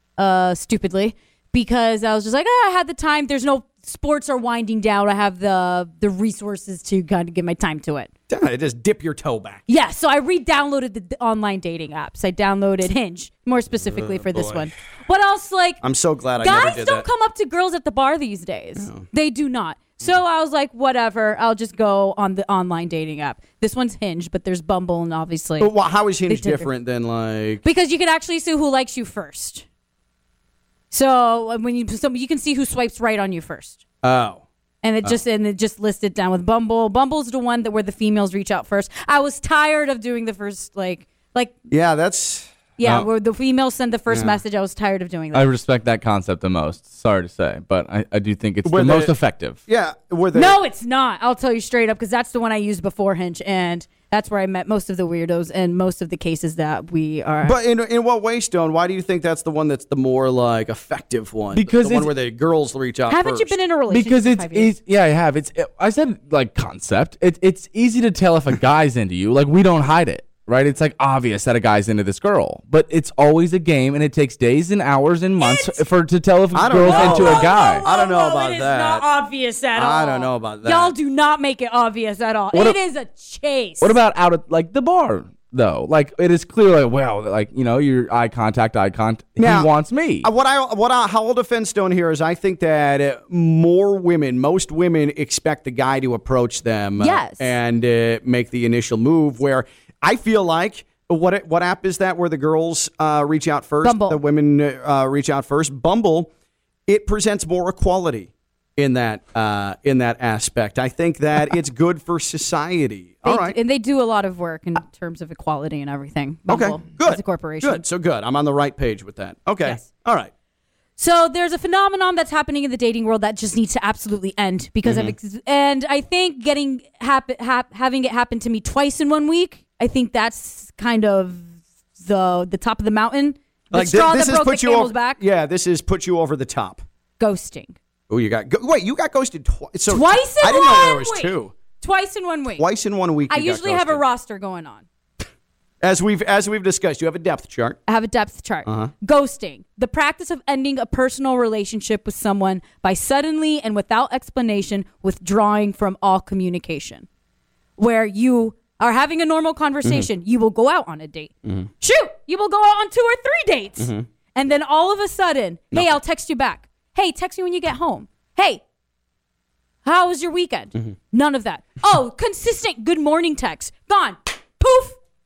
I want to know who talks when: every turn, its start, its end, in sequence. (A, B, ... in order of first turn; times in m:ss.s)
0:00.2-0:08.1 A
0:08.3-0:09.6 B
0:09.7-0:15.8 A
0:13.8-0:14.7 B
0:15.8-0:17.0 B
0:16.4-0:25.7 A
0:18.8-0:19.0 B
0:25.6-0:27.6 B
0:26.3-0:26.6 A
0:27.6-0:29.6 A
0:30.9-0:33.8 A
0:34.0-0:34.4 B
0:34.8-0:41.5 A
0:41.7-0:43.1 B
0:42.8-0:45.5 A
0:44.1-0:44.4 B
0:45.3-0:49.6 C
0:48.6-0:49.1 B
0:49.6-0:50.6 B
0:50.3-0:57.6 A
0:57.4-1:03.5 B
1:01.5-1:02.1 C
1:03.1-1:04.7 A
1:03.9-1:17.8 C
1:15.4-1:15.8 A
1:16.5-1:19.0 B
1:16.8-1:24.0 A
1:19.7-1:20.9 B
1:23.8-1:30.3 C
1:29.4-1:29.7 B
1:30.2-1:46.3 B
1:37.0-1:37.5 A
1:43.8-1:44.2 A
1:46.9-1:53.6 B
1:53.2-1:57.8 A
1:56.5-2:00.3 B
2:01.0-2:11.4 A
2:04.8-2:05.1 B
2:12.0-2:15.2 A
2:13.7-2:16.8 B
2:17.2-2:17.8 A
2:18.1-2:21.5 B
2:19.9-2:22.6 A
2:22.6-2:24.0 B
2:23.3-2:24.8 A
2:25.8-2:27.8 B
2:27.9-2:37.0 A
2:28.6-2:28.9 B
2:37.8-2:48.6 A
2:43.8-2:44.1 B
2:49.8-2:55.0 A